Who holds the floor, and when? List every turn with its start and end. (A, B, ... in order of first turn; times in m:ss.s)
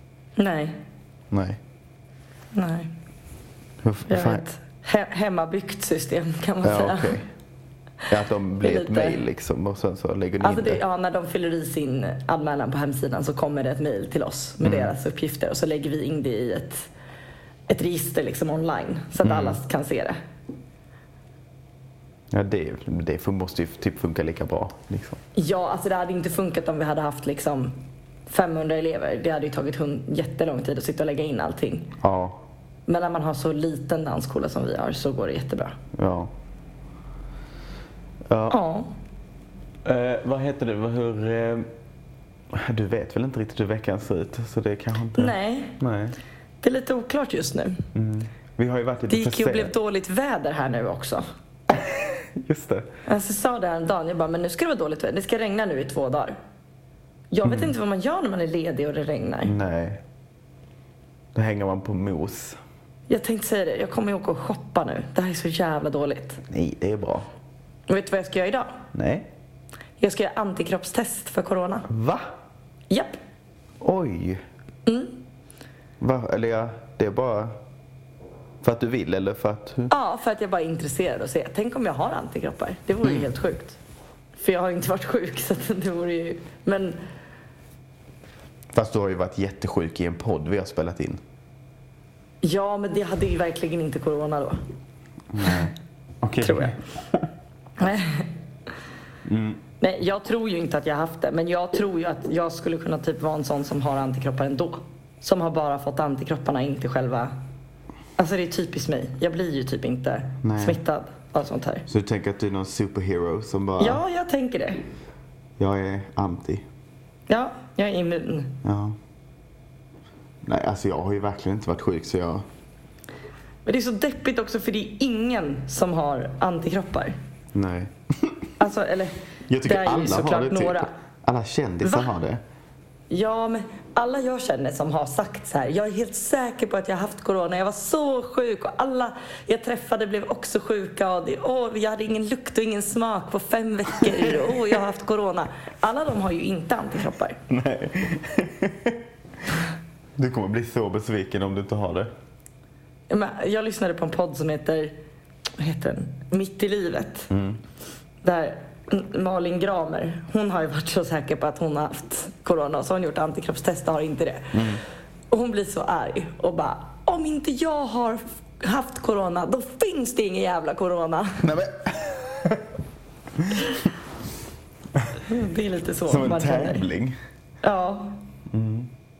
0:00.4-0:00.8 A
0:01.3-0:01.6 B
0:02.5-0:02.9 A
0:03.8-0:04.4 B
0:04.1-0:07.2 A
0:06.6-0:07.3 B
0:08.1-0:10.8 B
0:08.6-0:09.2 A
0:10.4-0:16.9 A
0:14.6-0:14.9 B
0:17.7-0:20.2 A
0:19.2-0:19.6 B
0:22.3-0:25.2 B
0:25.4-0:31.9 A
0:32.0-0:32.4 B
0:32.9-0:35.8 A
0:36.0-0:36.3 B
0:38.3-0:38.6 B
0:38.5-0:38.9 A
0:39.8-0:41.7 B
0:42.5-0:46.2 B
0:45.2-0:45.8 A
0:46.6-0:47.8 A
0:47.9-0:49.7 B
0:49.1-0:51.2 A
0:51.7-0:52.9 B
0:53.0-0:56.4 A
0:57.3-0:59.6 A
0:57.4-0:57.7 B
0:59.4-1:00.0 B
1:01.3-1:02.6 B
1:03.1-1:06.4 A
1:06.5-1:07.3 B
1:07.9-1:08.8 A
1:08.9-1:09.3 B
1:10.0-1:11.9 A
1:11.9-1:12.3 B
1:12.9-1:13.2 A
1:13.8-1:14.4 B
1:14.8-1:15.2 A
1:16.0-1:17.5 B
1:18.6-1:19.9 B
1:19.9-1:23.8 A
1:23.0-1:23.3 B
1:24.4-1:27.0 A
1:28.7-1:31.2 B
1:32.4-1:34.6 A
1:35.3-1:37.2 B
1:36.4-1:36.8 A
1:37.8-1:38.3 A
1:39.2-1:39.6 B
1:39.8-1:47.3 A
1:48.2-1:51.8 A
1:50.4-1:50.8 B
1:51.9-1:54.0 B
1:53.8-1:54.8 A
1:55.6-1:56.6 B
1:57.3-1:58.6 A
1:58.6-1:59.0 B
2:00.4-2:02.4 B
2:03.6-2:07.2 A
2:07.5-2:08.5 B
2:08.6-2:10.9 A
2:09.5-2:12.4 B
2:11.8-2:12.1 A
2:13.1-2:27.4 A
2:27.5-2:29.0 B
2:30.2-2:32.1 B
2:33.1-2:35.0 A
2:35.6-2:37.3 A
2:37.3-2:37.6 B
2:38.2-2:44.7 A
2:44.5-2:44.8 B
2:45.3-2:51.5 A
2:51.4-2:52.7 B
2:53.4-2:53.8 B
2:55.2-2:56.8 A
2:56.1-2:57.2 B
2:57.6-2:58.2 A
2:58.5-2:58.9 B